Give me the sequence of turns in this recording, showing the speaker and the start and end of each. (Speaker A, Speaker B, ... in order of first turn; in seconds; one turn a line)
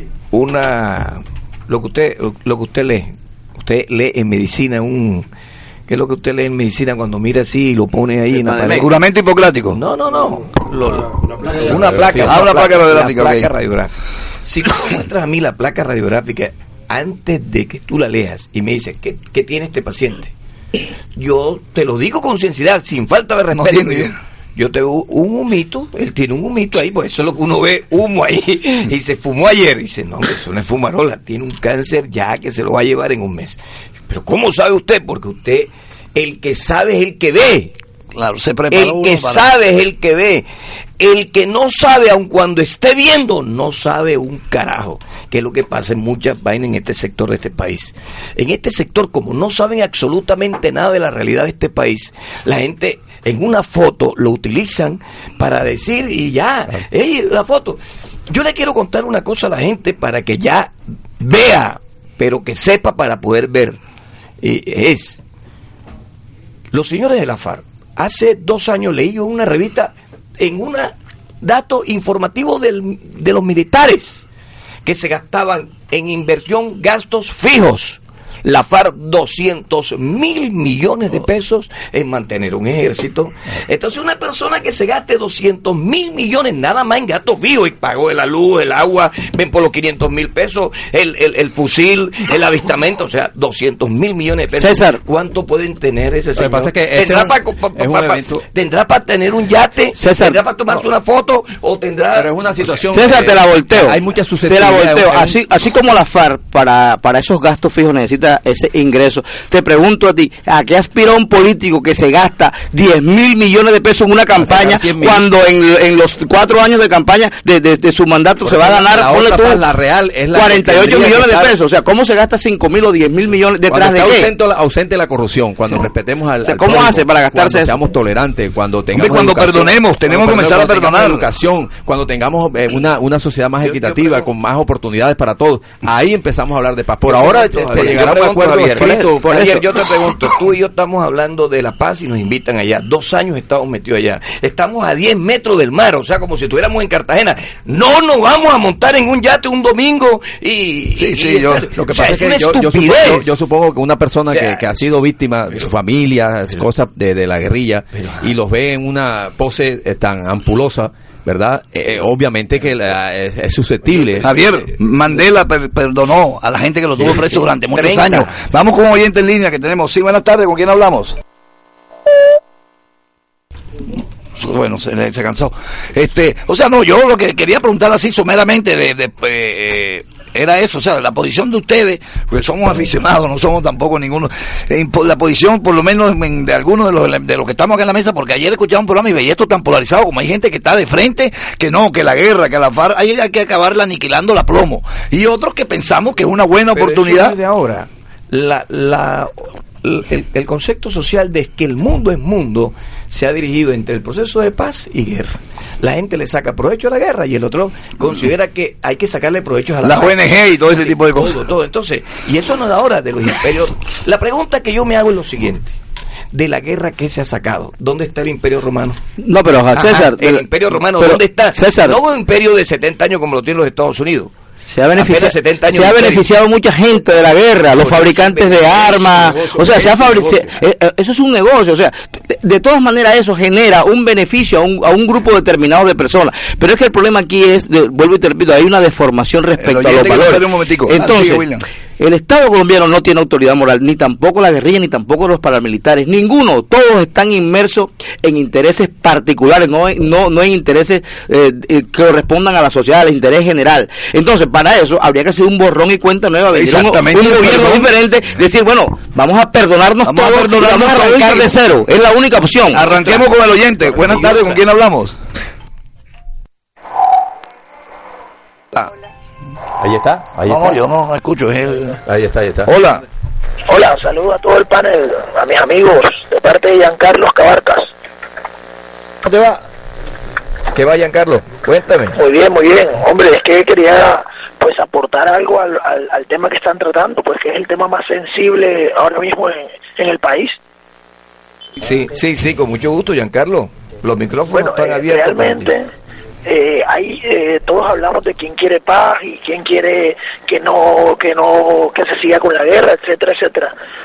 Speaker A: 0.3-5.3
Speaker A: 5.9-8.9
Speaker B: 8.7-9.8
Speaker A: 9.7-13.9
Speaker C: 11.5-12.5
Speaker B: 12.3-13.5
Speaker A: 14.4-20.3
Speaker A: 21.2-37.8
Speaker B: 23.5-24.1
Speaker B: 38.1-39.5
Speaker A: 38.7-40.5
Speaker A: 41.0-63.8
Speaker A: 64.4-65.2
Speaker A: 66.7-74.2
Speaker A: 74.8-102.3
Speaker D: 94.5-95.0
Speaker C: 96.4-98.4
Speaker D: 100.0-100.4
Speaker C: 102.1-105.4
Speaker D: 102.9-119.7
Speaker C: 114.3-115.2
Speaker C: 118.4-121.6
Speaker D: 120.3-124.3
Speaker C: 123.7-139.5
Speaker D: 126.4-127.8
Speaker B: 128.9-131.3
Speaker A: 133.6-134.3
Speaker A: 137.1-153.3
Speaker B: 151.0-152.4
Speaker C: 152.0-164.2
Speaker A: 154.3-154.8
Speaker B: 164.2-171.2
Speaker A: 167.0-168.3
Speaker B: 174.4-197.4
Speaker A: 196.7-215.8
Speaker B: 209.8-211.4
Speaker A: 216.3-219.0
Speaker D: 219.2-222.0
Speaker A: 219.7-224.3
Speaker D: 224.7-241.5
Speaker A: 224.9-226.3
Speaker A: 227.8-228.6
Speaker C: 227.9-230.6
Speaker B: 239.6-241.6
Speaker D: 242.0-263.2
Speaker B: 256.5-257.9
Speaker B: 260.1-261.6
Speaker B: 262.7-265.2
Speaker C: 269.8-270.8
Speaker B: 270.5-272.0
Speaker C: 272.1-272.7
Speaker B: 272.7-273.0
Speaker E: 273.7-277.9
Speaker A: 279.2-279.6
Speaker A: 280.7-282.2
Speaker E: 282.1-290.6
Speaker A: 291.8-295.7
Speaker E: 294.5-295.9
Speaker E: 296.5-303.7